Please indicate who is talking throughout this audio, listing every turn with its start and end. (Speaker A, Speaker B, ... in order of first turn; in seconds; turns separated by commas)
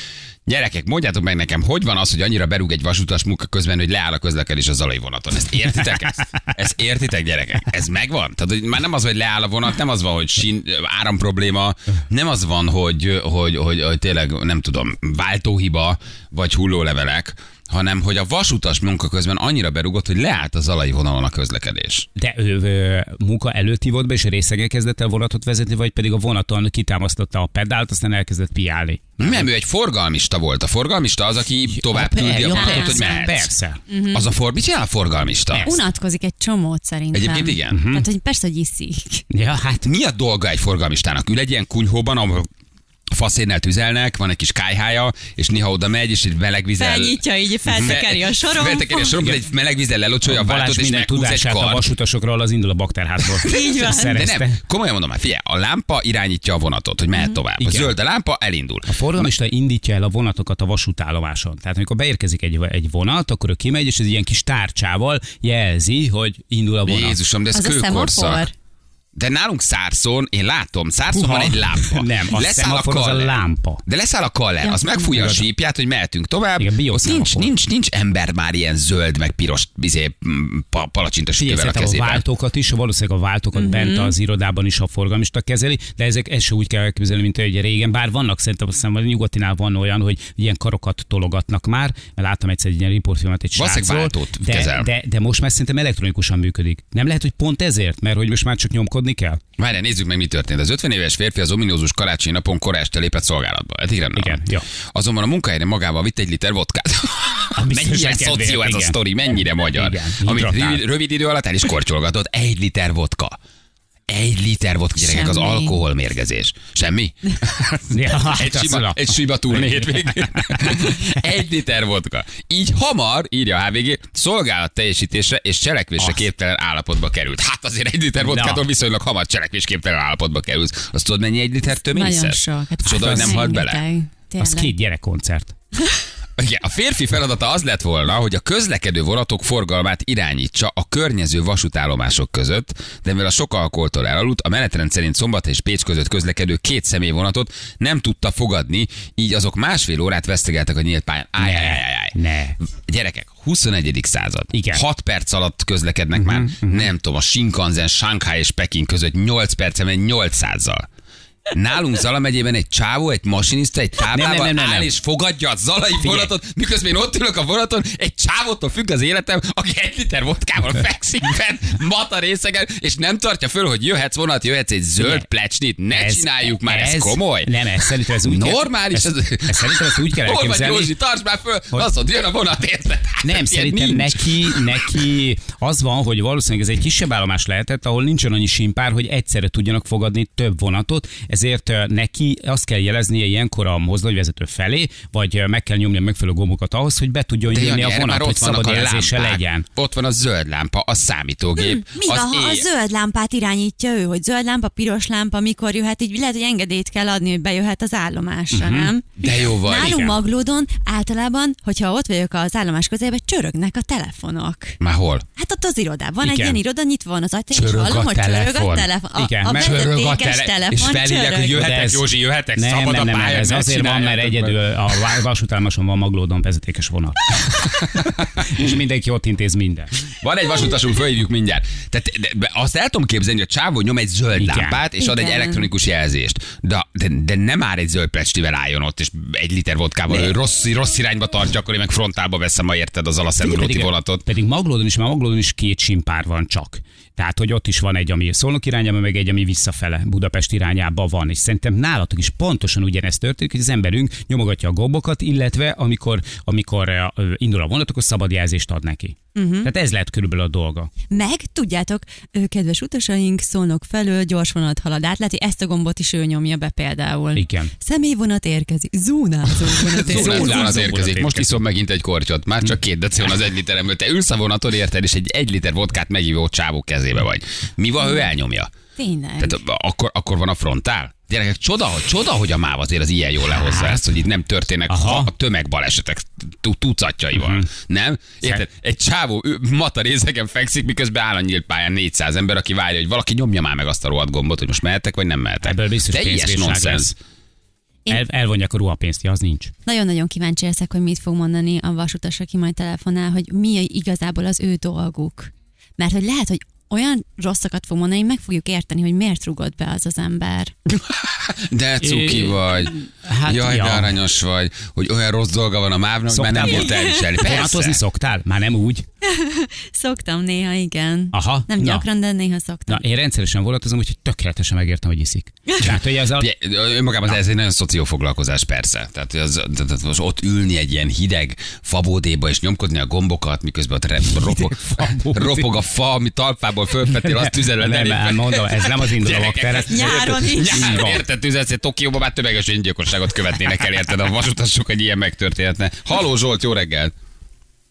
Speaker A: 0.5-22.1, Speaker B: 22.2-29.5, Speaker A: 29.2-33.5, Speaker B: 31.7-33.8, Speaker C: 32.4-33.4, Speaker C: 33.9-34.3, Speaker A: 34.1-35.7, Speaker B: 35.5-35.8, Speaker C: 35.6-39.2, Speaker A: 37.1-37.8, Speaker B: 37.7-38.1, Speaker B: 39.3-39.9, Speaker A: 39.8-42.5, Speaker A: 43.1-47.2, Speaker C: 46.8-49.2, Speaker B: 47.7-48.0, Speaker A: 47.7-51.9, Speaker B: 50.2-54.6, Speaker C: 53.4-54.2, Speaker A: 54.1-59.3, Speaker B: 57.6-58.0, Speaker B: 58.9-67.2, Speaker A: 66.9-68.5, Speaker C: 67.5-68.5, Speaker A: 69.2-82.2, Speaker B: 71.1-73.8, Speaker C: 74.6-75.4, Speaker B: 75.2-75.4, Speaker B: 76.6-77.5, Speaker B: 81.4-99.4, Speaker C: 83.6-84.1, Speaker A: 93.6-94.9, Speaker A: 99.6-104.4, Speaker B: 104.2-104.7, Speaker A: 104.9-113.4, Speaker B: 107.5-110.8, Speaker A: 114.1-133.8, Speaker C: 115.0-115.8, Speaker B: 117.9-120.9, Speaker B: 128.2-128.6, Speaker C: 131.8-134.7, Speaker B: 132.9-133.4, Speaker B: 134.4-135.5, Speaker A: 136.4-152.2, Speaker B: 151.4-152.6, Speaker A: 152.8-160.8, Speaker B: 154.5-154.8, Speaker B: 156.2-156.9, Speaker A: 161.5-177.5, Speaker B: 164.1-164.9, Speaker B: 166.0-166.3, Speaker B: 175.0-175.3, Speaker B: 175.9-180.9, Speaker A: 178.2-184.8, Speaker B: 183.2-199.7, Speaker A: 197.5-202.7, Speaker C: 201.6-214.8, Speaker B: 208.5-208.9, Speaker A: 209.2-210.1, Speaker B: 209.8-210.2, Speaker A: 214.8-215.2, Speaker C: 215.4-221.7, Speaker B: 216.2-216.6, Speaker A: 217.5-218.9, Speaker B: 219.2-219.7, Speaker A: 219.5-224.6, Speaker B: 221.5-229.9, Speaker A: 230.2-244.2, Speaker B: 234.3-234.8, Speaker C: 235.0-235.7, Speaker B: 243.4-260.9, Speaker C: 259.4-259.7, Speaker C: 261.1-271.0, Speaker B: 267.3-267.7, Speaker A: 269.9-278.7, Speaker B: 270.1-271.6, Speaker C: 279.0-279.6, Speaker A: 279.4-297.1, Speaker B: 283.5-284.0, Speaker B: 284.9-285.3, Speaker B: 287.4-287.7, Speaker B: 295.6-297.2, Speaker B: 298.1-299.7, Speaker C: 299.9-310.7, Speaker A: 311.0-312.9, Speaker B: 312.0-314.2, Speaker A: 313.5-318.0, Speaker B: 316.3-319.1, Speaker C: 316.6-317.7, Speaker C: 319.3-323.0, Speaker B: 321.3-322.1, Speaker B: 322.9-326.5, Speaker A: 325.8-347.1, Speaker B: 334.4-335.7, Speaker B: 337.1-341.2, Speaker C: 339.9-341.1